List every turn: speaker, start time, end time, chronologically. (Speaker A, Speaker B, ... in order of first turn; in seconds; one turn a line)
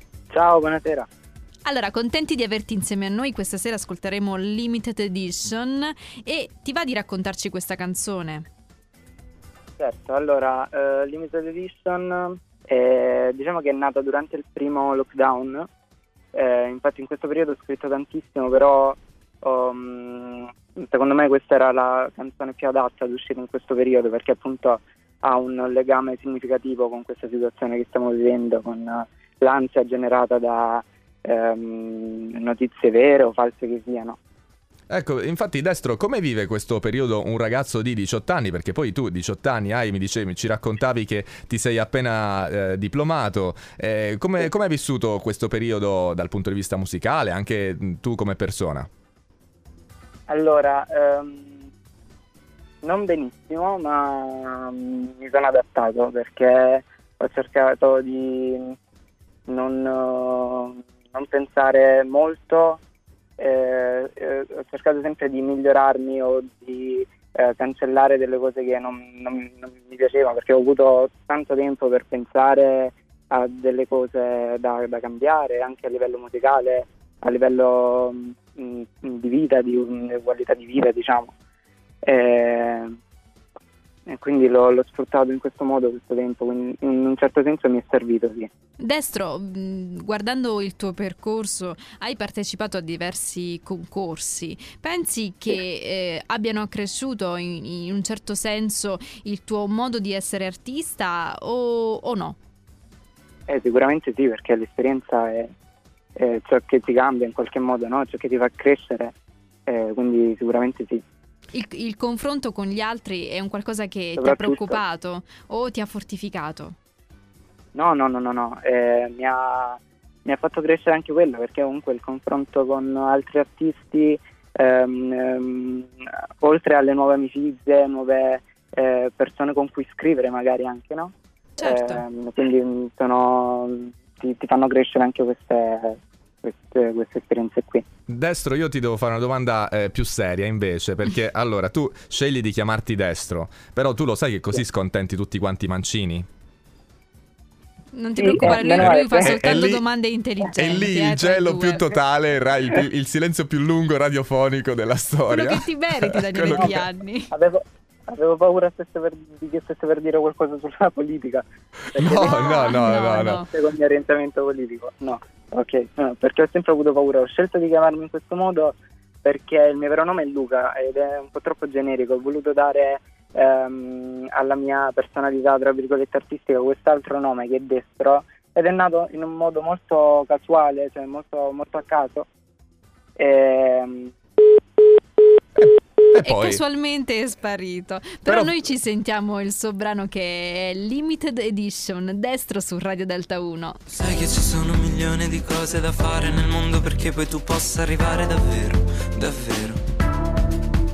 Speaker A: 0.3-1.1
Speaker B: 1.6-8.5
Speaker A: 9.8-15.7
Speaker A: 16.3-34.2
Speaker C: 34.9-48.9
Speaker A: 50.3-51.6
Speaker A: 52.8-58.8
Speaker A: 59.5-62.8
Speaker A: 63.4-81.3
Speaker A: 82.0-82.9
Speaker A: 84.1-88.5
Speaker B: 88.8-102.4
Speaker A: 103.5-105.5
Speaker A: 106.2-109.1
Speaker A: 109.7-111.0
Speaker B: 111.5-116.8
Speaker A: 114.2-114.8
Speaker A: 117.7-137.8
Speaker B: 131.6-132.0
Speaker C: 138.1-146.3
Speaker B: 147.9-151.9
Speaker A: 148.2-149.4
Speaker C: 148.6-149.8
Speaker C: 150.5-156.9
Speaker B: 155.3-157.3
Speaker A: 156.5-156.8
Speaker A: 157.3-182.3
Speaker C: 162.0-163.4
Speaker B: 162.1-163.5
Speaker A: 183.2-184.1
Speaker C: 185.6-186.6
Speaker B: 186.2-193.8
Speaker C: 188.3-188.5
Speaker D: 193.9-199.8